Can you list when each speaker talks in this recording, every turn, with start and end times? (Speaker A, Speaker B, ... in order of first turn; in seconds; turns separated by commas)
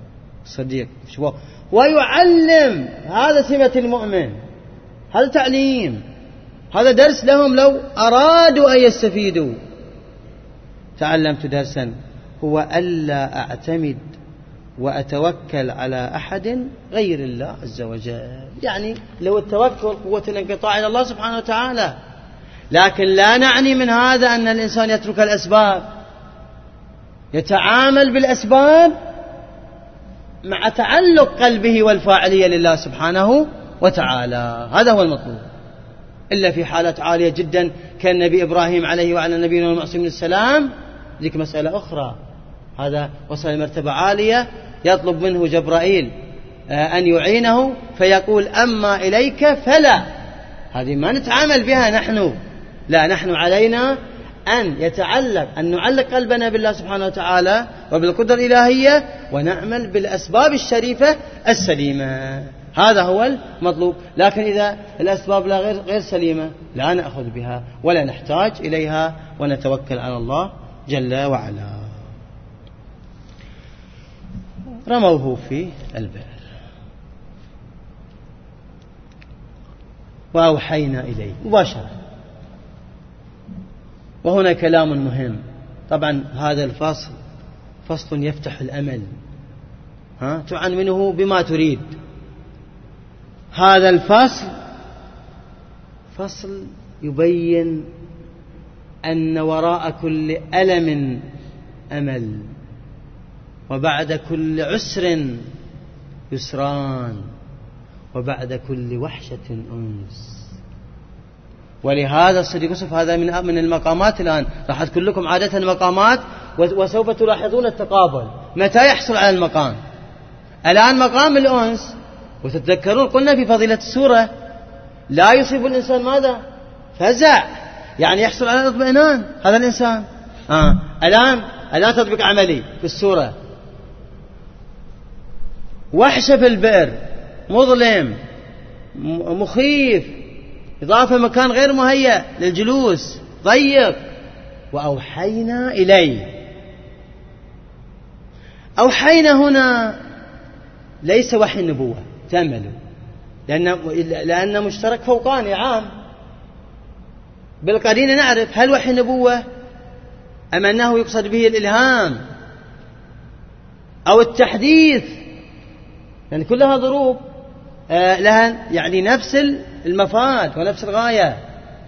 Speaker A: 0.5-4.4, Speaker A: 5.1-6.0, Speaker A: 6.7-9.6, Speaker A: 11.0-14.0, Speaker A: 14.8-21.9, Speaker A: 22.7-25.9, Speaker A: 27.3-28.9, Speaker A: 30.4-35.4, Speaker A: 36.3-40.7, Speaker A: 41.2-42.2, Speaker A: 42.8-46.1, Speaker A: 46.7-50.0, Speaker A: 50.7-52.4, Speaker A: 52.9-54.0, Speaker A: 54.5-72.0, Speaker A: 74.9-76.4, Speaker A: 80.3-81.9, Speaker A: 84.2-87.2, Speaker A: 87.9-89.1, Speaker A: 90.2-91.9, Speaker A: 93.5-94.5, Speaker A: 96.1-97.9, Speaker A: 99.0-101.2, Speaker A: 101.9-102.5, Speaker A: 103.7-105.5, Speaker A: 106.3-107.3, Speaker A: 108.1-110.5, Speaker A: 111.8-119.8, Speaker A: 120.7-124.3, Speaker A: 125.1-126.4, Speaker A: 127.0-127.5, Speaker A: 128.0-133.3, Speaker A: 135.9-137.0, Speaker A: 137.5-138.2, Speaker A: 138.9-140.2, Speaker A: 140.8-144.0, Speaker A: 144.7-146.4, Speaker A: 148.8-150.0, Speaker A: 151.1-152.8, Speaker A: 153.5-155.9, Speaker A: 157.6-159.4, Speaker A: 160.5-162.2, Speaker A: 164.1-165.2, Speaker A: 166.3-167.2, Speaker A: 167.9-171.4